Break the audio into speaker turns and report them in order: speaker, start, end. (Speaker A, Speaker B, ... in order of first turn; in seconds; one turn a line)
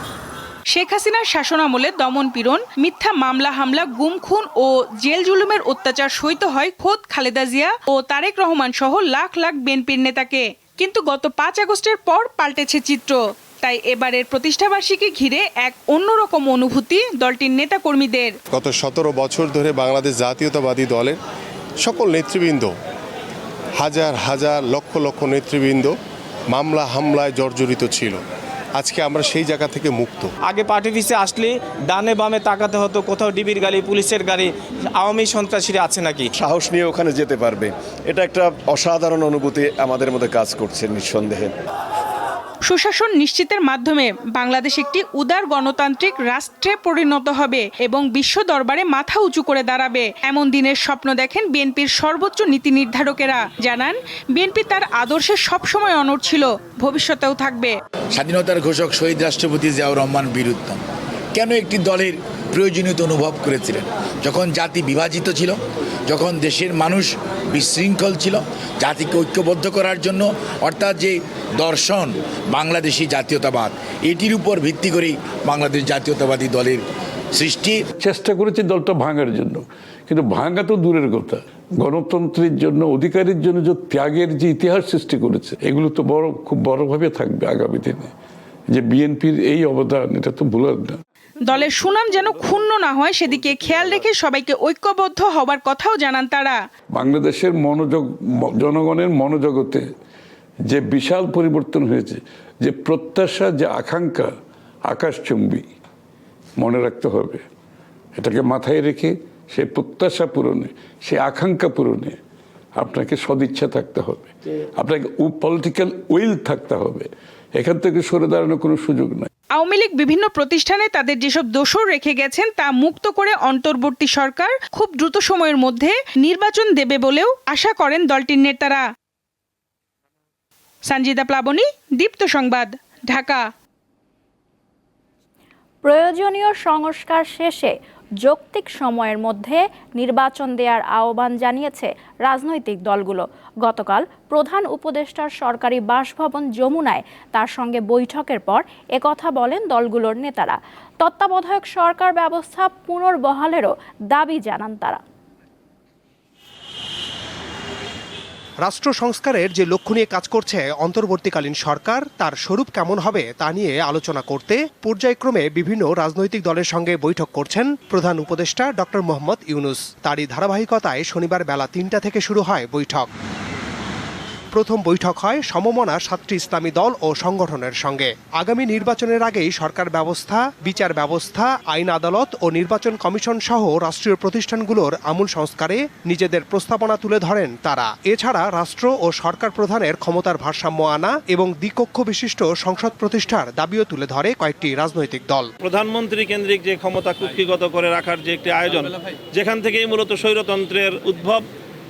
Speaker A: 0.7-18.3
Speaker B: 18.5-21.2
Speaker B: 21.8-22.7
Speaker B: 23.8-25.9
Speaker B: 26.5-28.2
Speaker B: 28.8-30.3
Speaker C: 30.4-36.3
Speaker D: 36.4-41.5
Speaker A: 42.7-57.7
Speaker E: 58.1-60.8
Speaker E: 61.3-76.8
Speaker E: 77.3-77.8
Speaker F: 78.0-88.1
Speaker F: 88.7-91.0
Speaker A: 91.5-96.5
Speaker F: 96.9-99.8
Speaker F: 100.7-104.3
Speaker F: 104.8-105.7
Speaker F: 106.6-107.4
Speaker F: 108.2-112.2
Speaker F: 112.8-119.3
Speaker A: 119.5-128.8
Speaker A: 130.9-133.4
Speaker G: 135.8-155.0
Speaker H: 158.6-173.1
Speaker H: 174.5-195.5
Speaker I: 195.6-201.4